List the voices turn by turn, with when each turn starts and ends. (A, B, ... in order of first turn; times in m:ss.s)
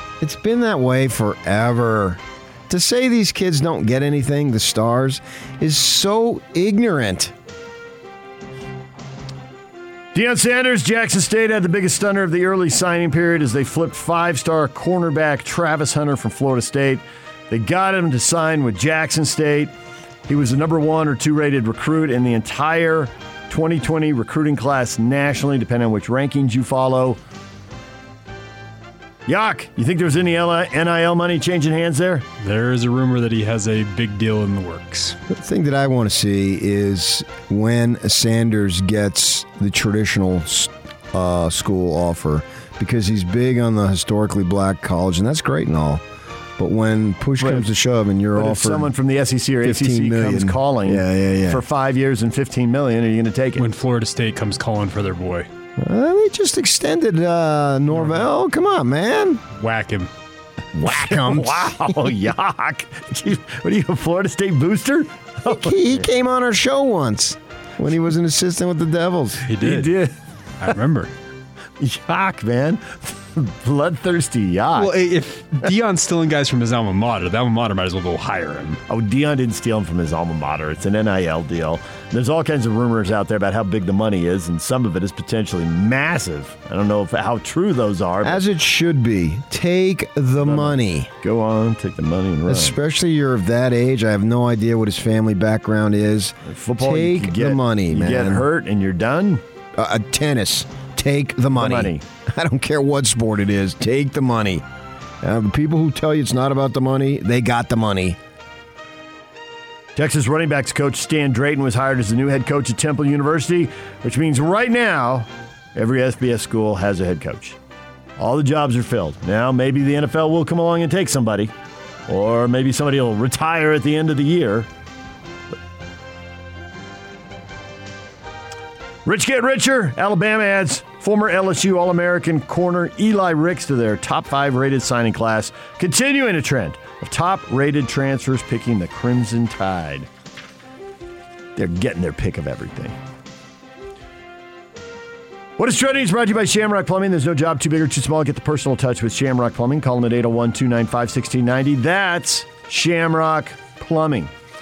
0:00.2-0:07.3 A
0:10.1-0:19.7 B
0:20.3-0:27.2 B
0:29.3-0:32.3 B
0:32.4-0:35.2 C
0:35.3-0:46.0 A
0:46.6-0:48.9 A
0:47.4-0:47.7 B
0:48.3-0:53.7 B
0:49.6-0:51.6 A
0:53.6-0:55.5 C
0:55.8-0:59.4 A
0:57.9-0:58.2 C
0:59.5-1:00.1 C
1:00.7-1:02.0 A
1:00.8-1:05.8 B
1:05.4-1:09.5 A
1:09.5-1:11.1 C
1:09.6-1:10.1 B
1:11.8-1:15.0 B
1:14.8-1:18.8 C
1:18.9-1:28.4 B
1:28.2-1:31.1 A
1:30.4-1:32.8 B
1:32.5-1:38.5 A
1:36.4-1:39.4 B
1:39.8-1:44.6 A
1:41.5-1:42.0 B
1:45.2-1:48.2 A
1:50.0-1:57.6 B
1:58.2-2:01.5 B
2:02.1-2:04.7 B
2:09.0-2:20.1 B
2:21.6-2:22.9 B
2:25.6-2:34.3 B